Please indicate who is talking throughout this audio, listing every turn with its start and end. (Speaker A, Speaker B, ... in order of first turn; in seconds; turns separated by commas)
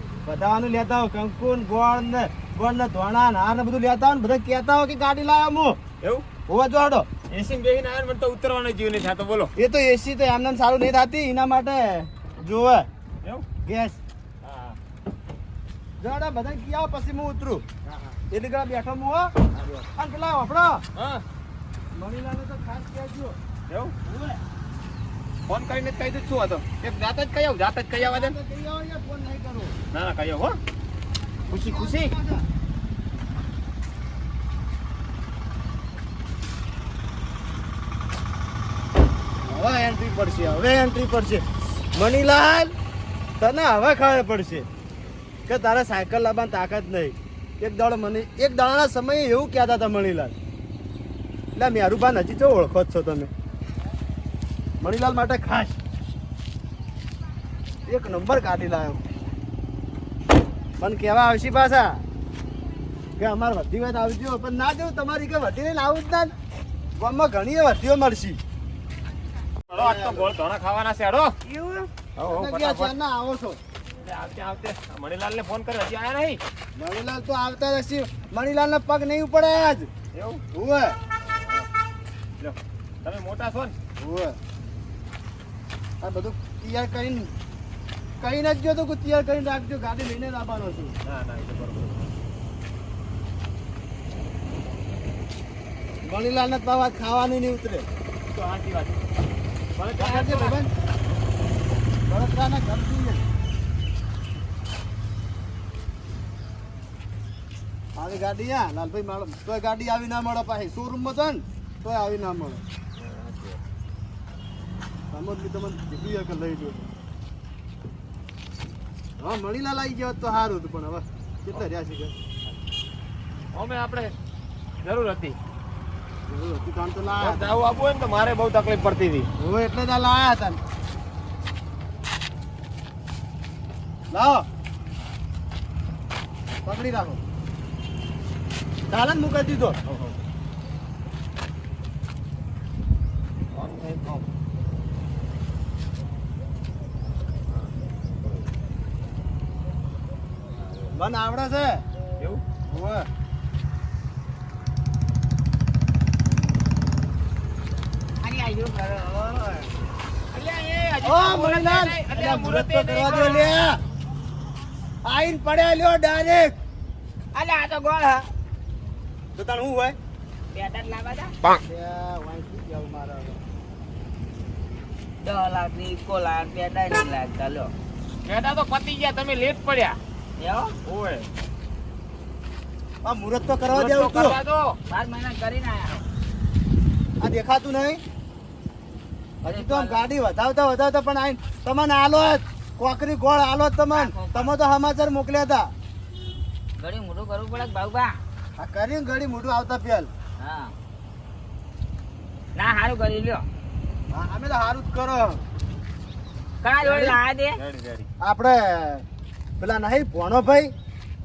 Speaker A: 0.2-5.8, Speaker A: 6.5-7.1, Speaker B: 7.3-9.5, Speaker A: 9.6-12.9, Speaker A: 13.6-14.0, Speaker B: 14.4-14.8, Speaker A: 16.0-20.8, Speaker B: 20.9-21.2, Speaker A: 21.9-23.4, Speaker B: 23.7-23.9, Speaker A: 24.0-24.4, Speaker B: 25.5-28.3, Speaker A: 27.9-29.7, Speaker B: 29.9-30.6, Speaker B: 31.5-32.1, Speaker A: 31.5-32.5, Speaker A: 39.5-42.7, Speaker A: 43.4-44.7, Speaker A: 45.5-50.3, Speaker A: 51.5-53.3, Speaker A: 54.8-55.8, Speaker A: 57.9-59.0, Speaker A: 60.8-62.0, Speaker A: 63.2-66.3, Speaker A: 67.0-68.4, Speaker B: 69.7-71.3, Speaker A: 69.7-70.3, Speaker A: 71.5-73.6, Speaker B: 72.2-72.9, Speaker B: 74.0-76.4, Speaker A: 76.8-79.9, Speaker B: 80.1-80.4, Speaker A: 80.5-81.0, Speaker B: 81.2-81.7, Speaker B: 82.4-83.7, Speaker A: 84.0-84.4, Speaker A: 86.0-87.3, Speaker A: 88.2-90.9, Speaker B: 91.0-92.1, Speaker A: 96.0-97.8, Speaker B: 98.3-99.0, Speaker B: 99.8-100.6, Speaker A: 100.0-100.7, Speaker A: 102.1-103.2, Speaker A: 108.0-112.6, Speaker B: 113.0-113.6, Speaker A: 115.1-116.9, Speaker A: 119.2-122.1, Speaker B: 123.5-124.1, Speaker B: 124.8-125.4, Speaker A: 126.3-127.5, Speaker B: 127.2-129.3, Speaker A: 129.4-130.6, Speaker A: 134.1-134.4, Speaker A: 136.6-137.2, Speaker A: 138.9-139.8, Speaker B: 139.9-140.2, Speaker B: 143.5-144.2, Speaker A: 150.9-151.8, Speaker A: 152.7-153.1, Speaker C: 158.2-159.2, Speaker A: 159.1-159.7, Speaker B: 160.3-163.6, Speaker A: 161.0-163.8, Speaker A: 165.0-166.5, Speaker C: 167.3-168.3, Speaker A: 169.3-170.0, Speaker C: 170.5-171.3, Speaker A: 171.6-173.4, Speaker C: 175.2-177.7, Speaker B: 178.2-180.0, Speaker C: 180.4-180.7, Speaker B: 180.8-181.3, Speaker A: 183.0-184.4, Speaker B: 183.7-184.8, Speaker C: 184.9-186.0, Speaker A: 187.2-188.0, Speaker A: 189.4-195.7, Speaker C: 189.4-190.0, Speaker C: 193.9-194.5, Speaker C: 196.8-198.2, Speaker A: 198.6-200.1, Speaker C: 200.4-200.7, Speaker C: 202.6-203.4, Speaker A: 204.1-205.4, Speaker C: 206.6-207.6, Speaker A: 206.8-207.2, Speaker B: 207.6-208.1, Speaker A: 208.2-209.0, Speaker A: 209.6-210.7